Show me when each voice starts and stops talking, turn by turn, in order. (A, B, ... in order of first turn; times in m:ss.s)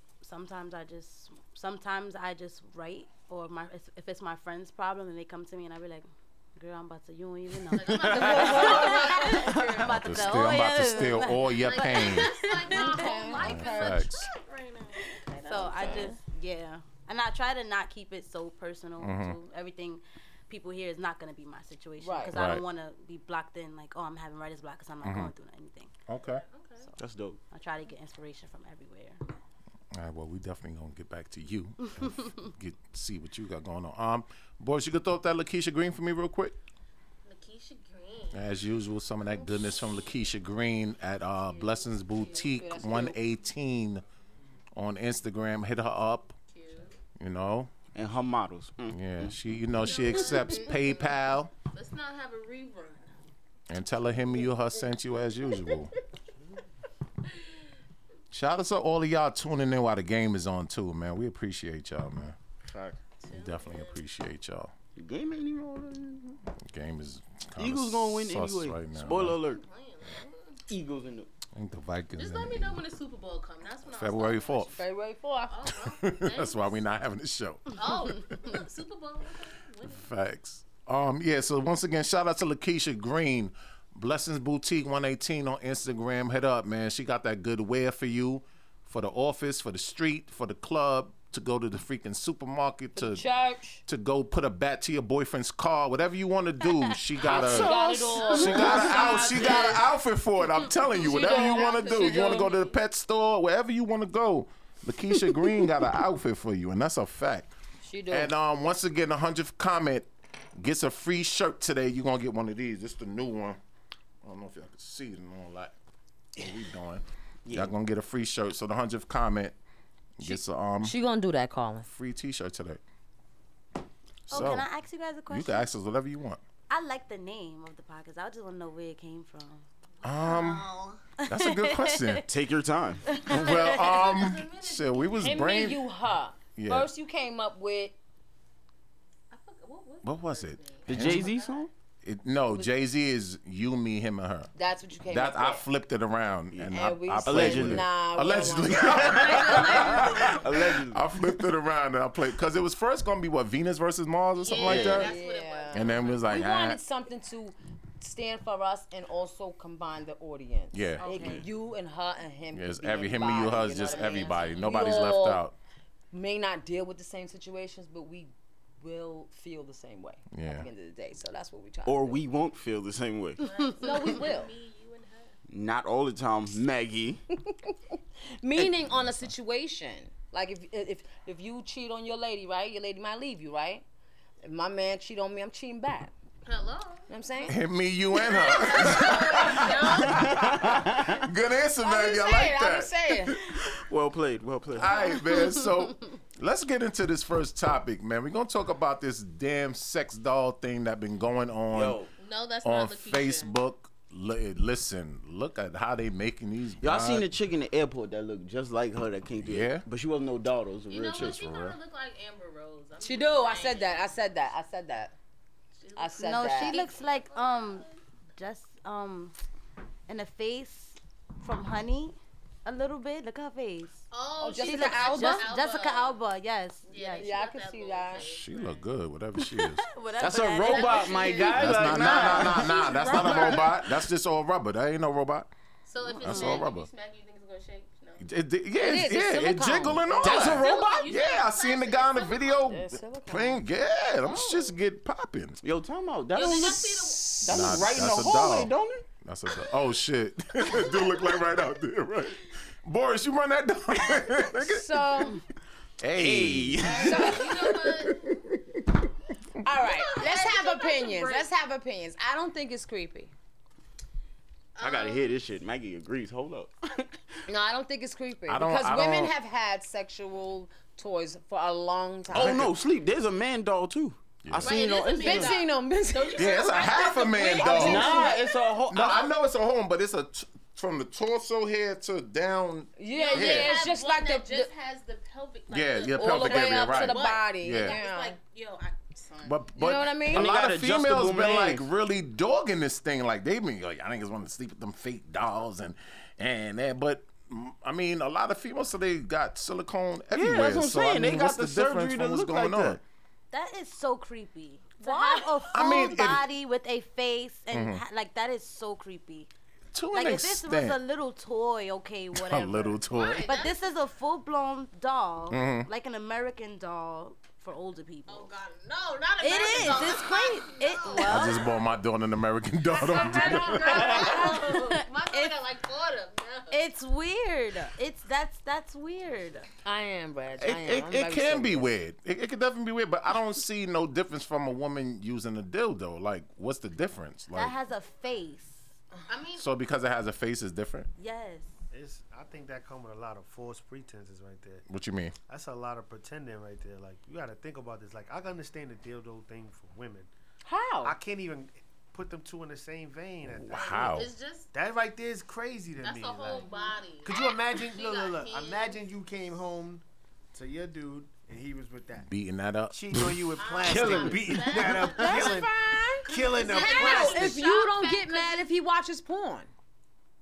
0:00.2-0:13.3 A
0:07.7-0:11.0 B
0:07.9-0:08.5 C
0:08.1-0:09.3 D
0:09.8-0:12.3 E
0:11.5-0:15.2 B
0:12.7-0:14.0 D
0:13.4-0:14.2 E
0:15.3-0:16.2 D
0:15.3-0:25.9 A
0:19.0-0:19.4 E
0:22.0-0:22.3 D
0:22.3-0:22.6 E
0:25.0-0:25.3 E
0:26.1-0:26.4 E
0:26.3-0:26.9 B
0:27.0-0:27.4 C
0:27.5-0:29.2 A
0:29.9-0:36.6 E
0:37.2-0:38.5 B
0:38.3-0:44.0 E
0:41.4-0:42.6 B
0:42.4-0:43.2 D
0:44.7-0:46.3 E
0:46.5-0:46.9 B
0:47.2-0:47.7 E
0:47.9-0:49.3 C
0:48.9-0:51.5 E
0:49.8-0:51.2 B
0:51.7-0:53.1 B
0:53.7-0:55.9 E
0:58.3-1:02.4 E
1:02.7-1:03.0 C
1:03.2-1:04.0 B
1:03.3-1:04.7 E
1:05.0-1:06.4 C
1:06.6-1:09.4 E
1:07.6-1:09.6 C
1:09.3-1:10.6 B
1:10.7-1:11.3 C
1:11.5-1:12.8 E
1:12.2-1:14.9 B
1:13.9-1:14.8 E
1:14.8-1:15.6 D
1:15.5-1:16.8 B
1:15.7-1:17.8 E
1:17.8-1:20.0 B
1:19.8-1:33.2 E
1:33.0-1:33.8 D
1:33.8-1:37.7 E
1:37.2-1:39.4 C
1:37.2-1:39.7 D
1:38.3-1:47.5 E
1:38.4-1:39.8 B
1:41.0-1:42.7 B
1:41.0-1:42.5 D
1:47.8-1:48.3 D
1:48.1-1:53.6 E
1:54.2-1:55.7 E
1:56.4-1:59.5 E
1:57.4-1:57.7 C
2:00.2-2:01.0 E
2:00.8-2:01.9 D
2:01.9-2:02.8 E
2:04.3-2:04.7 E
2:04.3-2:05.7 A
2:05.3-2:06.4 E
2:06.7-2:09.6 A
2:10.0-2:11.0 B
2:10.0-2:10.7 E
2:11.2-2:12.2 E
2:11.3-2:12.2 A
2:12.3-2:13.1 C
2:13.0-2:13.9 A
2:13.2-2:15.8 E
2:13.3-2:15.4 B
2:15.2-2:17.9 D
2:16.6-2:16.9 E
2:19.3-2:21.6 B
2:20.0-2:21.3 E
2:20.8-2:21.7 C
2:22.0-2:24.5 E
2:24.5-2:25.6 D
2:25.1-2:35.1 E
2:26.5-2:27.9 C
2:26.7-2:29.5 D
2:28.8-2:30.5 B
2:28.9-2:31.1 C
2:34.4-2:36.2 B
2:34.6-2:35.1 C
2:34.9-2:45.4 D
2:35.7-2:36.8 E
2:40.7-2:41.4 E
2:41.0-2:41.4 A
2:42.5-2:45.5 E
2:43.8-2:44.6 B
2:46.1-2:52.2 D
2:50.3-2:50.7 E
2:51.8-2:53.4 C
2:53.4-2:55.4 B
2:53.8-2:54.5 D
2:55.5-2:57.2 C
2:57.5-2:57.8 D
2:58.4-3:03.8 D
3:04.4-3:06.1 D
3:06.4-3:07.1 B
3:07.1-3:07.6 D
3:07.4-3:13.4 E
3:08.4-3:10.5 B
3:08.8-3:09.6 D
3:10.1-3:11.1 C
3:11.8-3:13.4 D
3:13.7-3:14.9 C
3:14.8-3:22.0 E
3:14.9-3:15.8 A
3:21.7-3:22.1 C
3:22.2-3:23.5 B
3:22.6-3:27.3 E
3:26.8-3:31.5 C
3:29.4-3:29.8 E
3:30.9-3:34.1 B
3:31.2-3:31.8 E
3:33.0-3:35.1 D
3:35.8-3:37.9 B
3:36.0-3:36.8 D
3:36.2-3:39.3 A
3:40.1-3:47.4 A
3:44.1-3:46.2 B
3:44.4-3:45.5 D
3:46.9-3:48.8 B
3:47.2-3:48.2 D
3:48.2-3:49.8 E
3:49.5-3:51.6 A
3:50.2-3:53.8 C
3:50.6-3:53.7 B
3:51.5-3:55.5 E
3:55.8-3:58.2 B
3:56.1-3:56.7 A
3:56.2-3:56.9 E
3:58.2-4:05.6 E
3:58.8-4:00.6 D
4:00.2-4:01.0 C
4:00.2-4:02.7 B
4:02.6-4:03.6 D
4:04.2-4:04.7 B
4:05.6-4:09.0 C
4:06.3-4:07.8 B
4:06.4-4:06.8 D
4:07.4-4:15.1 E
4:14.5-4:15.4 D
4:16.0-4:17.9 E
4:16.1-4:17.4 C
4:16.9-4:17.6 D
4:16.9-4:18.2 B
4:19.6-4:23.3 D
4:19.8-4:21.5 B
4:24.8-4:25.3 B
4:24.8-4:27.1 C
4:27.5-4:32.7 D
4:28.5-4:29.3 E
4:32.3-4:35.6 C
4:32.3-4:32.7 E
4:34.4-4:34.9 E
4:34.6-4:39.2 B
4:35.2-4:36.7 D
4:36.4-4:38.3 E
4:37.6-4:38.4 D
4:37.6-4:39.3 C
4:38.9-4:43.7 E
4:43.0-4:44.7 D
4:43.1-4:49.6 B
4:45.7-4:48.0 E
4:46.2-4:48.4 D
4:49.4-5:03.0 E
4:49.8-4:50.5 D
4:50.3-4:51.9 C
5:00.3-5:03.0 C
5:03.5-5:09.5 A
5:05.0-5:05.6 D
5:05.7-5:06.5 E
5:07.7-5:08.0 E
5:09.9-5:11.0 E
5:10.1-5:18.5 A
5:12.3-5:13.5 E
5:13.1-5:13.7 B
5:15.5-5:15.9 E
5:18.3-5:21.6 B
5:19.4-5:21.7 A
5:21.2-5:24.2 E
5:23.0-5:24.7 D
5:23.0-5:26.8 B
5:23.7-5:25.6 A
5:26.7-5:29.7 A
5:29.8-5:31.9 D
5:30.7-5:31.0 C
5:30.8-5:37.7 E
5:37.5-5:38.9 A
5:39.3-5:39.6 B
5:39.6-5:41.1 E
5:41.2-5:41.7 A
5:41.9-5:44.8 F
5:44.9-5:45.3 E
5:45.5-5:50.3 F
5:50.6-5:51.2 D
5:51.0-5:54.1 F
5:53.4-5:54.3 E
5:53.7-5:54.7 B
5:54.7-5:56.7 F
5:56.0-5:59.0 B
5:57.2-6:02.3 F
6:02.3-6:03.5 E
6:02.9-6:05.7 F
6:03.6-6:05.6 B
6:03.8-6:04.8 C
6:05.0-6:09.7 D
6:06.2-6:07.6 F
6:06.3-6:08.7 B